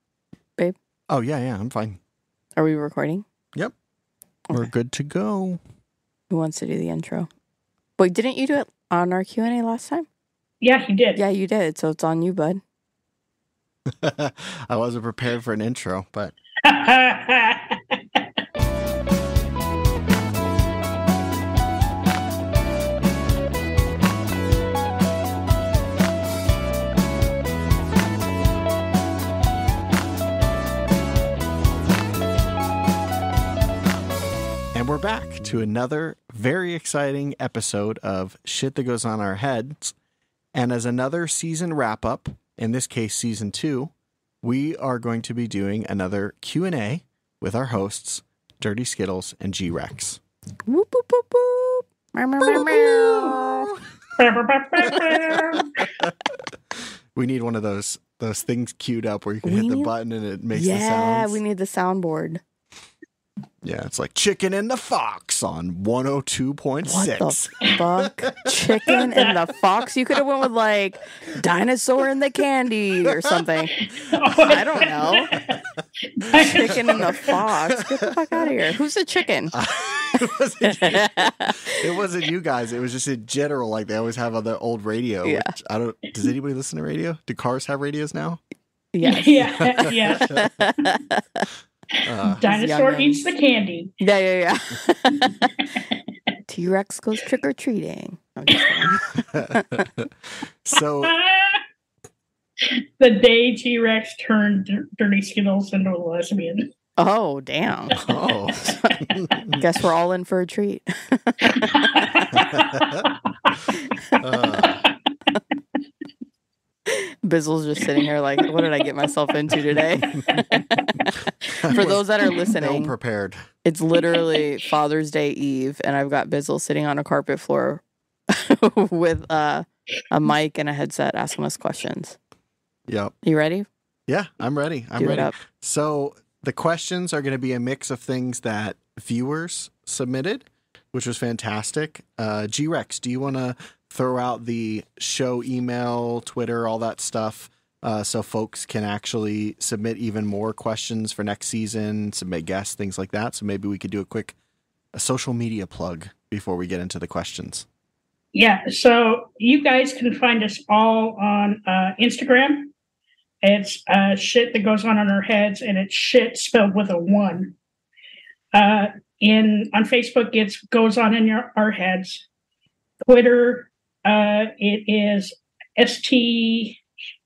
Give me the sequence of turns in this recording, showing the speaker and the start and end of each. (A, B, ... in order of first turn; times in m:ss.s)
0:01.1-0:02.0 A
0:02.6-0:03.2 B
0:04.5-0:05.6 A
0:06.3-0:07.3 B
0:08.0-0:10.1 B
0:10.6-0:11.2 C
0:11.2-0:12.6 B
0:13.9-0:16.3 A
0:16.6-0:18.2 C
0:34.7-0:39.9 A
0:40.5-0:50.2 A
0:50.6-0:53.7 B
0:52.4-0:53.7 A
0:54.2-0:55.8 C
0:54.9-0:55.1 A
0:55.8-1:01.4 A
0:59.4-0:59.9 B
1:00.5-1:02.4 B
1:03.6-1:09.0 A
1:06.8-1:13.8 B
1:08.9-1:09.3 C
1:13.8-1:15.6 C
1:14.4-1:15.4 B
1:14.6-1:15.4 A
1:16.1-1:17.4 C
1:16.3-1:18.1 A
1:16.3-1:19.6 B
1:19.5-1:28.4 A
1:20.6-1:21.8 B
1:25.2-1:25.5 B
1:28.9-1:31.5 B
1:29.0-1:30.3 C
1:29.8-1:30.5 A
1:32.0-1:32.4 A
1:32.2-1:33.9 C
1:32.5-1:33.2 B
1:34.0-1:35.7 B
1:36.5-1:39.8 B
1:38.6-1:38.9 C
1:39.3-1:41.1 A
1:41.0-1:41.6 C
1:42.6-1:46.7 C
1:47.0-1:48.0 B
1:47.9-1:49.6 A
1:48.5-1:52.6 B
1:51.7-1:52.9 C
1:52.3-1:53.1 A
1:53.8-1:54.2 B
1:54.2-1:54.8 A
1:54.6-1:54.9 C
1:56.9-2:02.9 B
2:01.6-2:03.4 A
2:03.6-2:12.2 B
2:12.9-2:13.1 A
2:13.2-2:13.7 B
2:14.1-2:34.4 A
2:15.0-2:15.4 B
2:34.9-2:37.6 A
2:38.3-2:42.7 C
2:43.4-2:47.5 C
2:48.5-2:52.2 C
2:53.0-2:56.8 C